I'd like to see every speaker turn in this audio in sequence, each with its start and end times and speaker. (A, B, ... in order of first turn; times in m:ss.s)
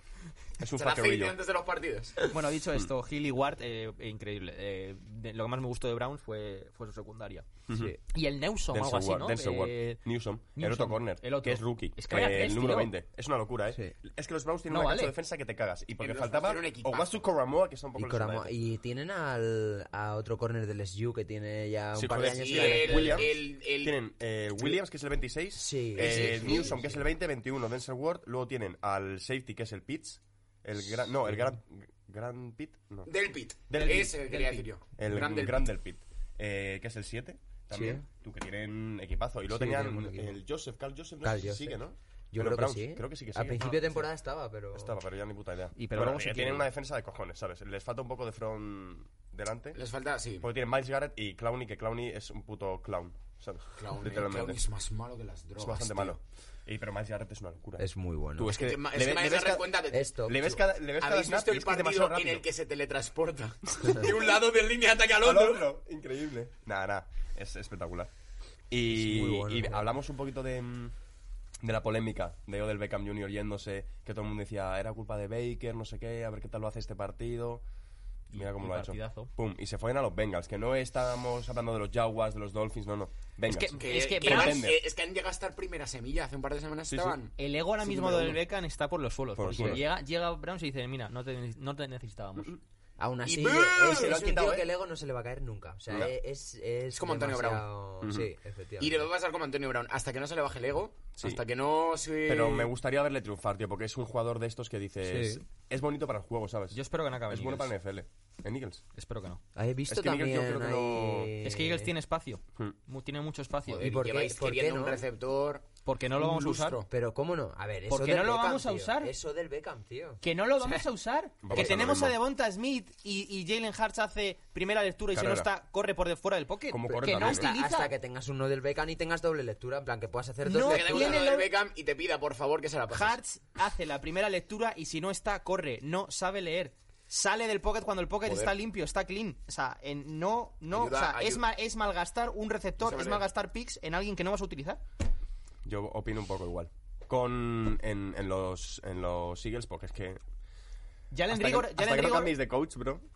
0:00.6-0:01.4 A
0:00.8-0:02.2 B
0:02.3-0:07.4 C
0:07.7-0:08.0 A
0:07.7-0:08.0 D
0:08.1-0:10.0 C
0:08.7-0:18.5 A
0:10.5-0:12.9 C
0:14.7-0:15.1 C
0:16.0-0:17.2 B
0:18.0-0:23.3 D
0:21.9-0:33.1 A
0:22.4-0:24.0 B
0:25.5-0:27.0 D
0:25.9-0:26.8 B
0:33.0-0:35.7 B
0:33.7-0:34.2 A
0:33.7-0:34.7 C
0:35.0-0:43.7 A
0:37.7-0:38.0 D
0:39.5-0:40.4 D
0:41.2-0:41.8 D
0:42.3-0:44.9 D
0:43.6-0:44.0 B
0:44.7-0:49.8 A
0:45.8-0:46.7 C
0:49.8-0:50.5 B
0:50.4-0:54.6 A
0:53.8-0:56.2 B
0:55.6-0:59.7 A
0:57.8-0:58.6 D
0:58.4-1:00.3 B
0:59.9-1:00.6 D
1:00.2-1:02.4 A
1:01.0-1:05.7 B
1:05.2-1:08.1 A
1:08.7-1:10.9 A
1:08.9-1:09.9 D
1:11.6-1:17.6 A
1:18.3-1:19.3 C
1:18.3-1:24.8 A
1:23.4-1:24.6 C
1:23.8-1:28.4 B
1:26.9-1:27.2 A
1:27.4-1:32.6 C
1:29.4-1:29.8 A
1:33.0-1:39.1 D
1:33.2-1:34.2 B
1:33.9-1:34.7 A
1:35.9-1:36.1 A
1:36.9-1:37.6 B
1:38.0-1:38.3 A
1:38.8-1:42.7 B
1:42.2-1:48.8 A
1:45.0-1:45.4 D
1:46.7-1:47.7 C
1:48.9-1:49.4 C
1:49.5-1:51.9 D
1:49.9-1:51.4 A
1:51.4-1:53.9 C
1:53.7-1:56.9 B
1:53.8-1:55.0 D
1:55.8-1:56.8 C
1:56.9-2:00.8 D
1:57.9-1:59.1 C
2:00.2-2:07.9 C
2:01.4-2:02.2 A
2:01.5-2:01.8 D
2:05.1-2:05.5 A
2:06.7-2:07.5 A
2:06.9-2:11.2 D
2:10.4-2:11.5 C
2:10.6-2:13.2 B
2:12.9-2:24.8 C
2:18.2-2:18.5 B
2:20.7-2:21.4 B
2:22.8-2:23.2 B
2:25.6-2:30.2 A
2:31.1-2:32.4 C
2:31.3-2:33.0 A